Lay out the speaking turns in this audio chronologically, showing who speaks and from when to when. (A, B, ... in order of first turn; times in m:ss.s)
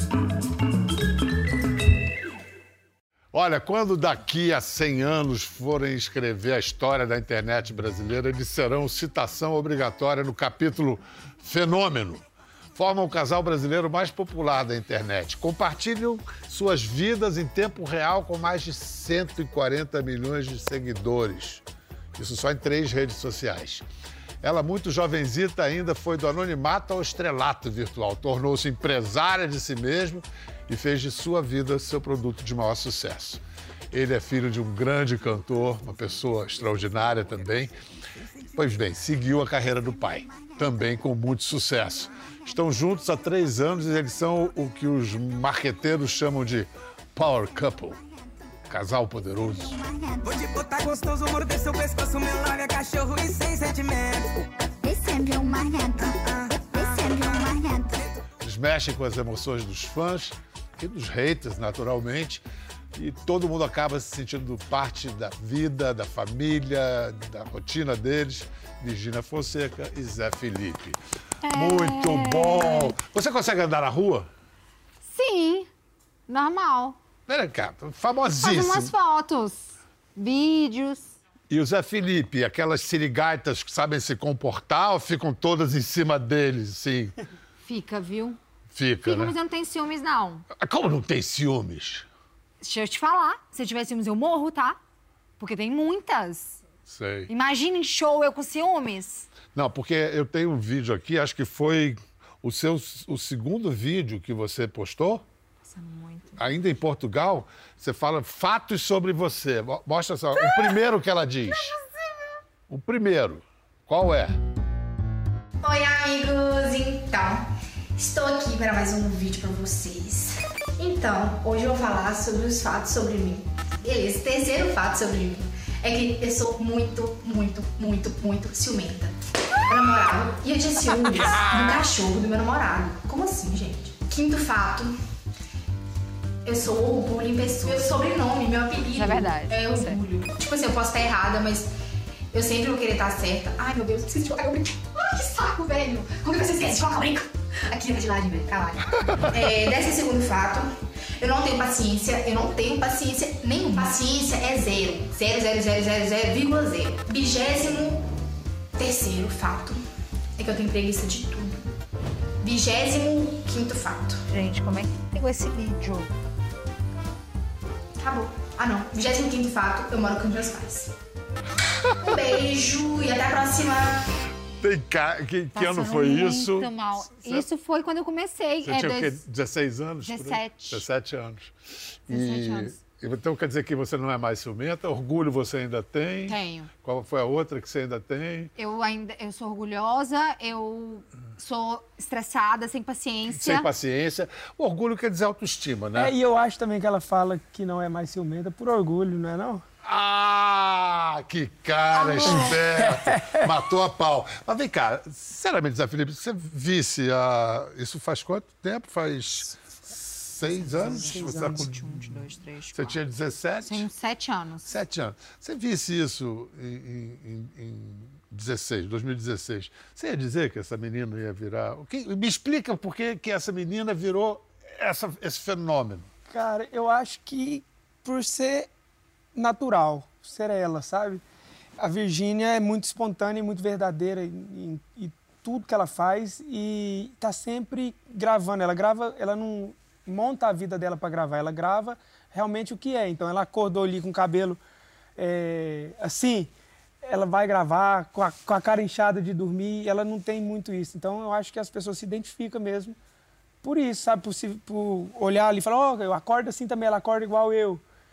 0:03.3-0:21.6 A
0:22.1-0:23.8 A
0:24.4-0:37.8 A
0:38.5-0:48.0 A
0:40.3-0:40.7 B
0:48.7-0:49.8 A
0:49.4-0:50.4 B
0:50.2-0:54.4 C
0:54.8-0:58.0 B
0:56.0-0:57.2 C
0:58.4-1:02.4 A
1:02.9-1:11.0 A
1:11.4-1:12.9 D
1:11.5-1:14.3 A
1:15.1-1:15.7 D
1:16.3-1:17.0 D
1:17.3-1:18.9 A
1:18.4-1:21.1 D
1:21.5-1:27.2 A
1:27.6-1:28.4 D
1:28.7-1:29.4 A
1:29.0-1:30.4 D
1:30.5-1:32.1 A
1:32.6-1:34.8 D
1:35.4-1:36.6 D
1:36.8-1:37.3 A
1:37.3-1:39.3 D
1:39.5-1:45.2 A
1:45.7-1:46.4 D
1:46.4-1:51.8 A
1:52.7-1:54.4 A
1:55.6-2:09.1 E
2:09.7-2:14.9 E
2:16.4-2:21.7 E
2:18.9-2:20.0 D
2:22.3-2:30.7 E
2:31.2-2:38.0 E
2:38.8-2:39.8 E
2:40.4-2:41.6 E
2:42.4-2:44.2 E
2:44.3-2:46.1 D
2:48.0-2:50.9 E
2:52.0-2:54.0 E
2:54.6-2:57.4 A
2:55.5-2:59.2 D
2:58.6-3:01.5 A
3:00.0-3:00.8 D
3:02.1-3:08.5 A
3:02.1-3:02.7 D
3:06.3-3:06.7 D
3:08.6-3:13.7 D
3:13.3-3:16.1 A
3:15.9-3:19.6 F
3:19.8-3:32.2 A
3:21.9-3:22.6 D
3:22.5-3:23.4 F
3:30.5-3:33.0 D
3:30.8-3:31.7 F
3:32.7-3:33.9 A
3:33.6-3:34.7 D
3:34.6-3:46.1 A
3:46.3-3:48.7 F
3:49.3-3:51.2 F
3:51.8-4:04.6 F
4:05.2-4:06.5 F
4:07.0-4:13.0 F
4:13.6-4:17.8 F